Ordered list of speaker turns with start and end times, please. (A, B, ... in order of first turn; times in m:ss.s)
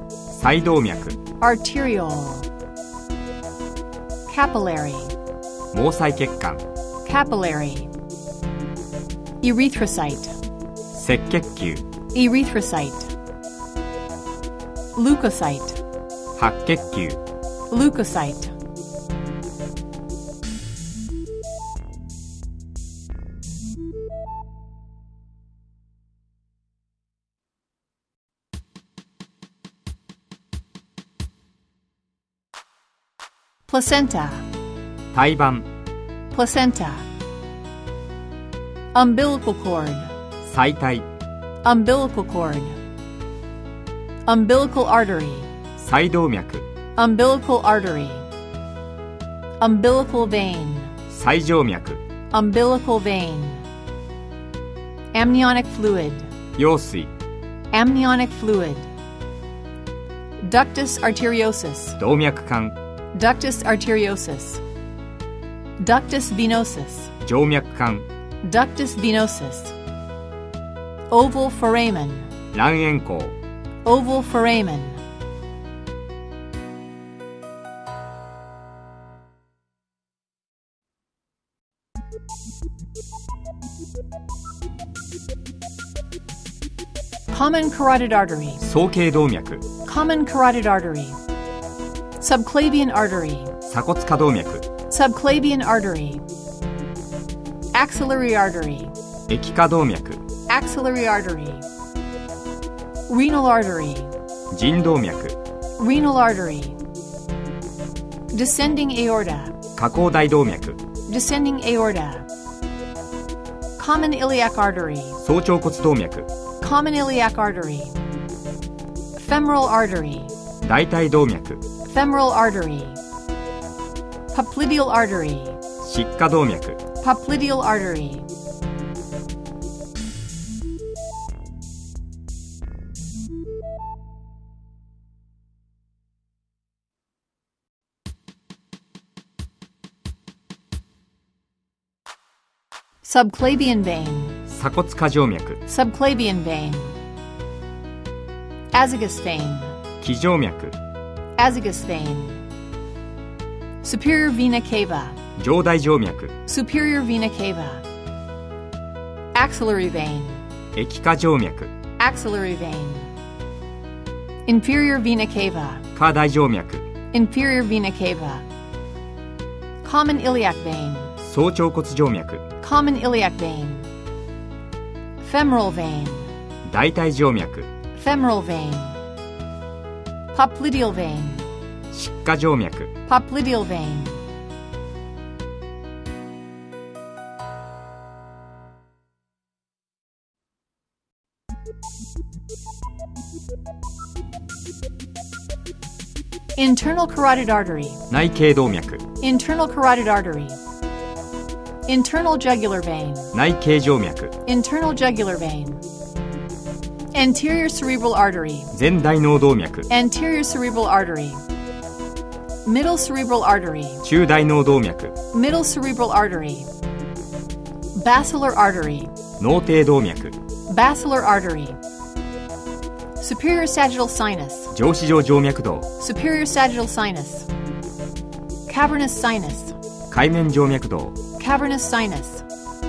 0:00.3-0:01.2 A
0:01.4-0:02.5 B
0:04.3-0:05.2 B
0:05.7-0:06.6 A
0:07.0-0:07.9 B
0:09.4-0:10.4 B
0:10.9-0:11.9 A
0:12.1-0:13.1 B
0:15.0-0:15.8 B
0:16.4-0:17.2 A
0:17.7-0:18.5 B
0:33.7-0:34.5 B
0:35.1-0:35.7 A
0:36.3-0:37.1 B
0:38.9-0:40.1 B
0:40.4-0:41.1 A
0:41.6-0:42.8 B
0:44.3-0:45.5 B
0:45.8-0:46.7 A
0:47.0-0:48.3 B
0:49.6-0:50.9 B
0:51.1-0:52.0 A
0:52.3-0:53.6 B
0:55.1-0:56.3 B
0:56.6-0:57.1 A
0:57.7-0:58.9 B
1:00.4-1:02.0 B
1:02.0-1:02.8 A
1:03.1-1:04.6 B
1:05.8-1:07.1 B
1:07.2-1:08.1 A
1:08.4-1:09.8 B
1:11.1-1:12.3 B
1:12.5-1:13.4 A
1:13.8-1:15.0 B
1:27.3-1:28.6 B
1:28.6-1:29.7 A
1:29.9-1:31.2 B
1:32.2-1:33.6 B
1:33.6-1:34.7 A
1:34.9-1:36.2 B
1:37.7-1:39.0 B
1:39.3-1:40.2 A
1:40.5-1:41.7 B
1:43.1-1:44.1 B
1:44.5-1:45.4 A
1:45.8-1:46.8 B
1:48.3-1:49.6 B
1:49.8-1:50.8 A
1:51.1-1:52.3 B
1:53.8-1:55.2 B
1:55.2-1:56.3 A
1:56.6-1:58.0 B
1:59.2-2:00.4 B
2:00.6-2:01.6 A
2:01.9-2:03.0 B
2:04.3-2:05.6 B
2:05.8-2:06.8 A
2:07.0-2:08.3 B
2:23.0-2:24.4 B
2:24.5-2:25.6 A
2:25.7-2:27.0 B
2:28.7-2:29.8 B
2:30.0-2:30.8 A
2:31.4-2:32.4 B
2:33.8-2:35.2 B
2:35.4-2:36.4 A
2:36.5-2:37.8 B
2:39.3-2:40.4 B
2:40.8-2:41.7 A
2:42.0-2:43.1 B
2:44.5-2:45.9 B
2:46.0-2:46.9 A
2:47.1-2:48.5 B
2:49.8-2:51.2 B
2:51.2-2:52.5 A
2:52.6-2:53.9 B
2:55.2-2:56.3 B
2:56.6-2:57.7 A
2:58.0-2:59.0 B
3:00.3-3:01.5 B
3:01.9-3:02.9 A
3:03.1-3:04.2 B
3:16.6-3:18.0 B
3:18.1-3:19.1 A
3:19.2-3:20.6 B
3:21.9-3:23.3 B
3:23.3-3:24.4 A
3:24.5-3:25.8 B
3:27.1-3:28.7 B
3:28.7-3:29.9 A
3:29.9-3:31.4 B
3:32.6-3:34.0 B
3:34.0-3:35.2 A
3:35.3-3:36.7 B
3:37.9-3:39.2 B
3:39.4-3:40.4 A
3:40.7-3:41.8 B
3:43.2-3:44.7 B
3:44.7-3:45.9 A
3:46.0-3:47.5 B
3:48.7-3:49.8 B
3:50.1-3:51.2 A
3:51.4-3:52.5 B